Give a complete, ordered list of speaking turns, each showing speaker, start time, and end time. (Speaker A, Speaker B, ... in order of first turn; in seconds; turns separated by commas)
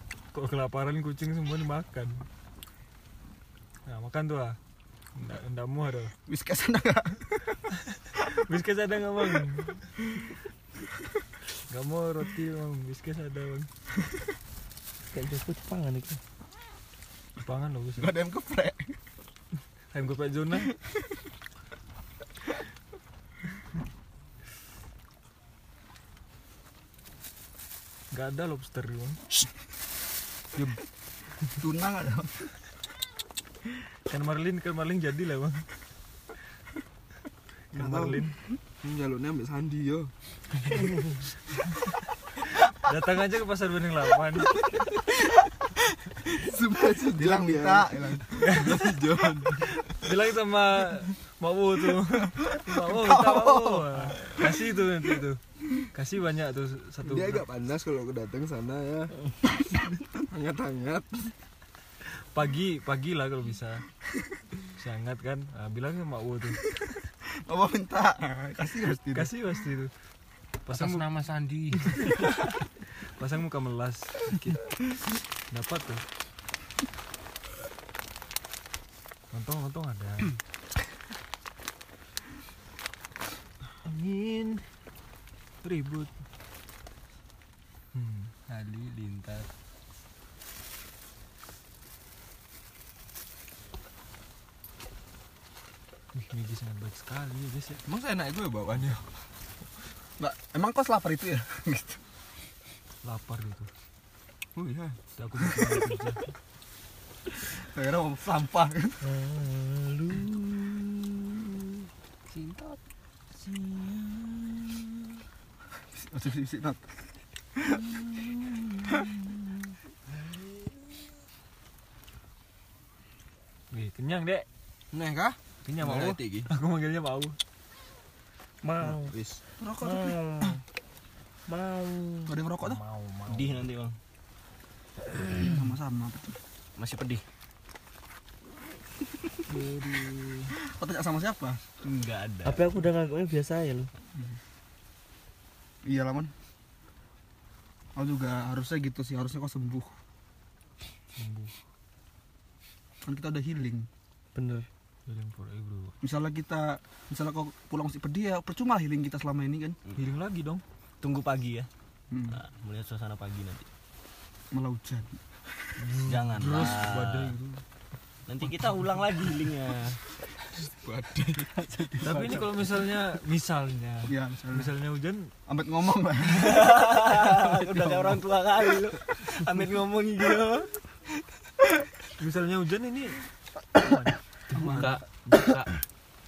Speaker A: 0.3-2.2, Speaker A: 3.9-4.6, Speaker A: 5.1-6.1, Speaker B: 6.3-7.4, Speaker A: 8.3-9.9, Speaker A: 11.7-13.7, Speaker C: 15.1-16.2, Speaker A: 17.4-18.1, Speaker B: 18.0-18.9, Speaker A: 19.9-20.7, Speaker A: 28.1-29.2, Speaker A: 30.5-30.8, Speaker B: 31.6-32.4, Speaker A: 34.1-35.6, Speaker D: 37.7-38.2, Speaker A: 37.7-38.3, Speaker D: 38.8-40.1, Speaker A: 42.8-44.6, Speaker D: 46.3-49.8, Speaker B: 47.0-48.3, Speaker A: 48.4-49.0, Speaker A: 50.0-55.4, Speaker B: 52.5-54.2, Speaker A: 55.9-57.4, Speaker D: 57.0-59.2, Speaker D: 60.3-61.3, Speaker A: 62.3-63.8, Speaker A: 64.8-66.6, Speaker B: 67.5-69.3, Speaker A: 69.1-69.9, Speaker A: 70.7-71.1, Speaker E: 70.7-72.2, Speaker A: 73.2-74.7, Speaker A: 75.5-76.0, Speaker A: 79.3-80.4, Speaker A: 83.8-84.7, Speaker A: 85.6-86.1, Speaker A: 87.9-89.5, Speaker A: 96.1-97.8, Speaker D: 97.8-99.0, Speaker B: 100.2-102.0, Speaker A: 103.0-103.7, Speaker D: 104.5-105.0, Speaker A: 105.1-106.3, Speaker B: 107.5-109.0, Speaker C: 109.0-111.7, Speaker E: 112.3-112.8, Speaker C: 113.3-115.1, Speaker B: 116.0-116.8, Speaker C: 117.7-119.5, Speaker A: 123.7-124.5, Speaker D: 124.9-126.5, Speaker A: 125.6-127.4, Speaker C: 128.6-129.2, Speaker B: 129.6-130.2, Speaker C: 129.8-130.6, Speaker C: 131.5-132.4, Speaker B: 132.3-132.8, Speaker A: 132.6-133.6, Speaker F: 133.3-134.0, Speaker B: 135.4-136.4, Speaker F: 136.8-137.2, Speaker A: 139.5-140.5, Speaker B: 140.7-141.6, Speaker F: 141.8-142.6, Speaker C: 142.4-143.9, Speaker B: 145.8-146.3, Speaker B: 147.9-149.9, Speaker A: 151.2-151.5, Speaker B: 153.0-153.9, Speaker C: 154.3-154.7, Speaker A: 155.1-155.9, Speaker B: 156.0-159.8, Speaker A: 159.9-160.6, Speaker F: 161.0-161.7, Speaker B: 162.1-162.4, Speaker F: 162.3-163.7, Speaker B: 164.5-165.2, Speaker A: 165.8-167.6, Speaker F: 166.0-167.3, Speaker F: 168.3-170.0, Speaker D: 170.5-171.6, Speaker E: 171.7-172.5, Speaker A: 172.0-175.3, Speaker B: 174.1-174.7, Speaker B: 175.5-176.7, Speaker F: 176.3-180.7, Speaker A: 177.4-178.2, Speaker A: 182.2-183.2, Speaker A: 183.8-184.9, Speaker B: 184.5-184.9, Speaker C: 184.5-185.7